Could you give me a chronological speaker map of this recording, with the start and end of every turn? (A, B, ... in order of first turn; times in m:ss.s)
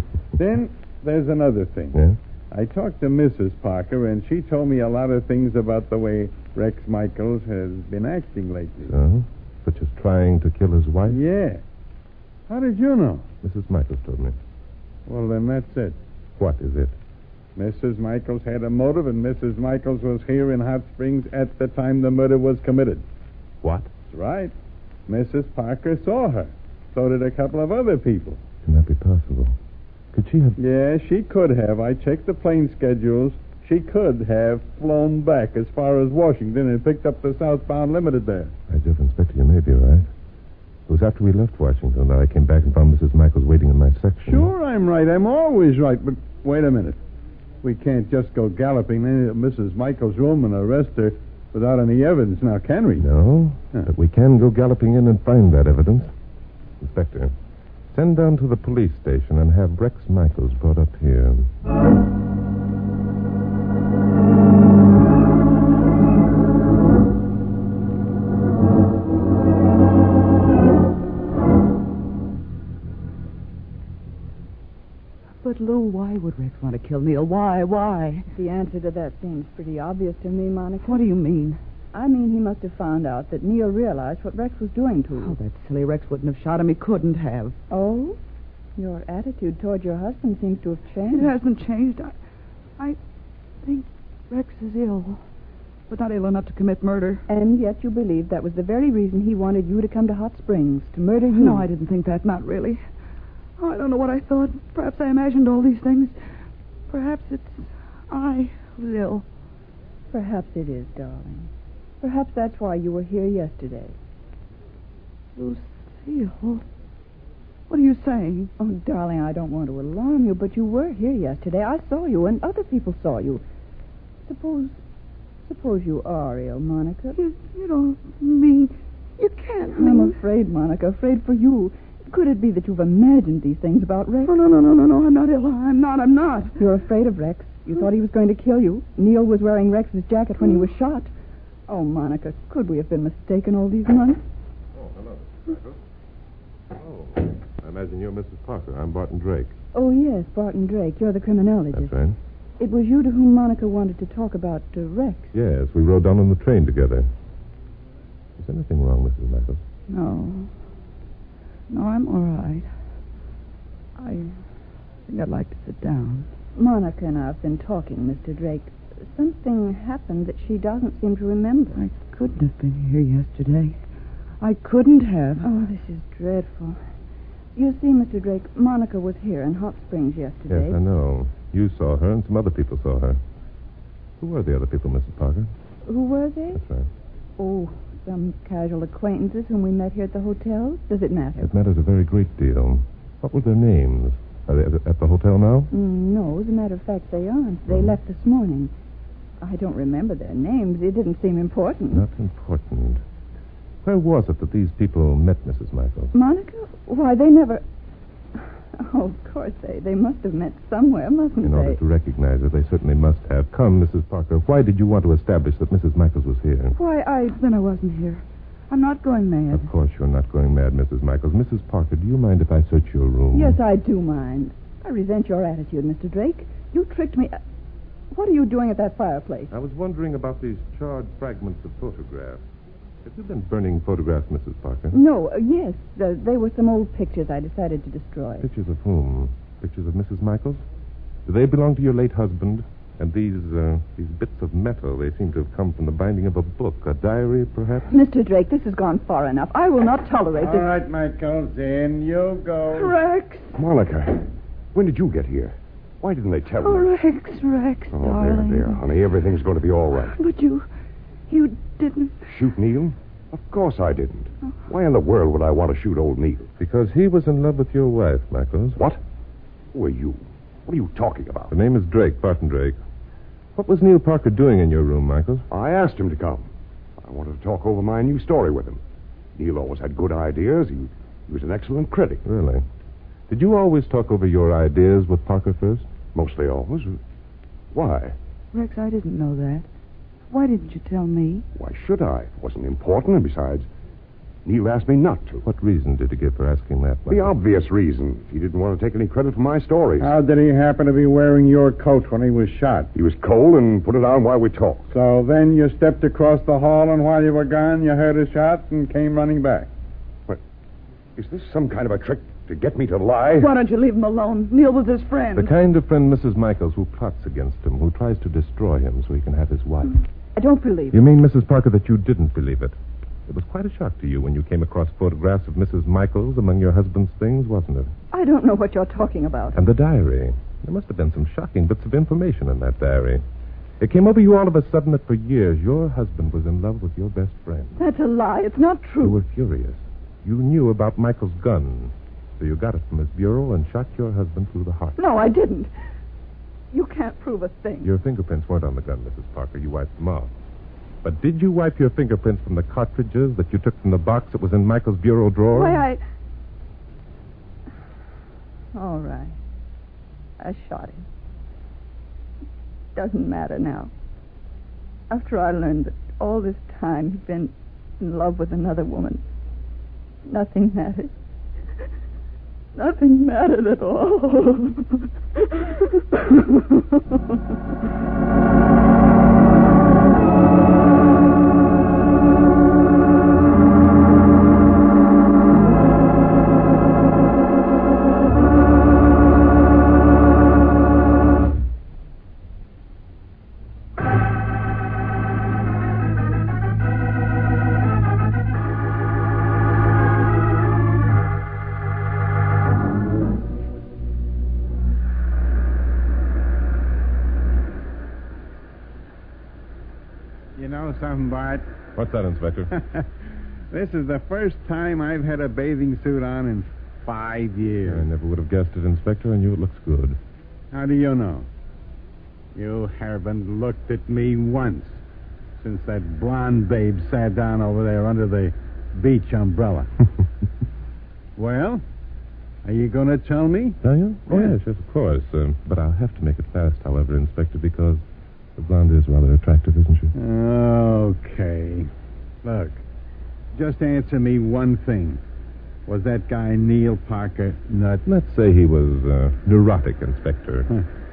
0:00.4-0:02.0 A
0:02.5-0:08.9 A
0:08.9-0:11.2 B
0:11.1-0:11.6 A
0:12.5-0:13.3 A
0:13.4-0:14.4 B
0:15.1-0:16.0 A
0:16.4-0:17.0 B
0:17.6-0:23.0 A
0:23.6-0:23.9 B
0:24.1-0:24.5 A
0:25.1-0:28.4 A
0:28.6-0:29.6 B
0:30.1-0:30.6 B
0:30.6-0:38.5 A
0:38.7-0:40.1 B
0:40.9-0:44.5 B
0:44.3-0:47.0 A
0:47.6-0:53.1 A
0:53.0-0:56.1 B
0:56.8-0:57.3 B
0:57.9-1:01.5 B
1:15.4-1:18.3 C
1:18.3-1:21.0 D
1:20.8-1:21.6 C
1:21.9-1:25.3 D
1:25.2-1:27.6 C
1:27.7-1:28.2 D
1:28.8-1:31.3 D
1:31.1-1:32.1 C
1:33.6-1:35.2 C
1:35.9-1:37.3 C
1:37.3-1:41.7 D
1:41.3-1:42.8 C
1:43.6-1:46.2 C
1:46.9-1:49.2 C
1:50.1-1:51.5 D
1:52.0-1:54.0 D
1:55.4-1:56.6 C
1:57.7-1:58.5 C
1:58.6-2:03.4 D
2:04.3-2:04.8 D
2:05.4-2:07.2 D
2:07.2-2:10.2 C
2:09.7-2:14.3 D
2:14.2-2:16.6 C
2:16.6-2:21.1 D
2:21.7-2:24.2 D
2:24.8-2:25.8 B
2:26.7-2:29.6 B
2:29.7-2:32.0 D
2:31.7-2:32.2 B
2:32.6-2:35.3 D
2:35.3-2:37.1 B
2:38.4-2:39.6 B
2:39.9-2:40.5 C
2:41.7-2:42.7 C
2:44.0-2:44.4 C
2:45.1-2:46.3 C
2:46.6-2:51.8 D
2:51.8-2:53.8 C
2:54.4-2:55.5 C
2:55.4-2:56.8 D
2:57.6-3:00.8 D
3:00.5-3:03.2 B
3:04.2-3:05.5 B
3:05.8-3:06.6 D
3:06.5-3:06.9 B
3:07.4-3:11.5 D
3:11.4-3:15.7 B
3:15.7-3:18.7 D
3:17.7-3:18.0 B
3:19.4-3:22.1 D
3:21.9-3:23.0 B
3:23.8-3:26.1 B
3:26.1-3:27.6 D
3:28.4-3:31.8 D
3:31.4-3:36.8 B
3:36.7-3:39.7 C
3:39.5-3:43.6 B
3:43.3-3:47.4 D
3:48.1-3:49.5 D
3:49.5-3:52.4 B
3:53.0-3:55.0 B
3:54.9-3:58.5 D
3:58.4-4:00.6 B
4:01.3-4:07.9 B
4:07.9-4:10.7 D
4:10.4-4:13.0 A
4:12.7-4:13.6 C
4:13.6-4:16.9 E
4:16.6-4:18.8 C
4:17.9-4:20.2 E
4:20.1-4:20.7 C
4:21.3-4:22.3 C
4:22.3-4:26.5 E
4:26.6-4:28.8 B
4:29.7-4:31.5 E
4:31.5-4:32.8 B
4:33.6-4:35.5 B
4:35.5-4:36.5 E
4:37.0-4:38.8 E
4:39.4-4:42.2 E
4:42.2-4:42.6 B
4:43.3-4:45.9 B
4:46.1-4:47.0 E
4:47.7-4:48.2 E
4:48.5-4:49.7 C
4:50.3-4:51.5 C
4:51.6-4:53.7 E
4:54.4-4:55.4 E
4:55.4-4:57.4 B
4:57.1-5:00.1 E
5:00.0-5:02.9 A
5:02.9-5:04.9 E
5:04.9-5:09.7 A
5:11.2-5:13.5 E
5:13.4-5:15.5 C
5:15.3-5:20.0 B
5:20.4-5:21.0 D
5:20.9-5:22.8 B
5:23.3-5:27.9 B
5:28.1-5:29.6 D
5:29.5-5:33.2 B
5:33.8-5:37.8 B
5:37.8-5:39.2 D
5:39.0-5:45.0 B
5:45.0-5:45.7 D
5:46.7-5:47.9 D
5:47.8-5:50.3 B
5:51.0-5:55.8 B
5:55.5-5:56.0 D
5:58.7-5:59.4 D
6:00.4-6:01.0 D
6:03.0-6:03.9 D
6:05.1-6:09.2 D
6:10.3-6:11.1 D
6:12.8-6:17.4 D
6:50.6-6:51.6 A
6:52.0-6:52.7 B
6:52.7-6:53.1 A
6:53.7-6:58.0 A
6:57.8-7:00.2 B
7:00.7-7:01.5 A
7:02.6-7:05.0 A
7:05.6-7:09.9 A
7:11.4-7:11.8 A
7:12.6-7:13.8 A
7:13.8-7:18.0 B
7:18.6-7:20.1 B
7:20.2-7:21.9 A
7:22.4-7:22.8 A
7:23.5-7:25.2 A
7:25.9-7:28.0 A
7:28.1-7:30.7 B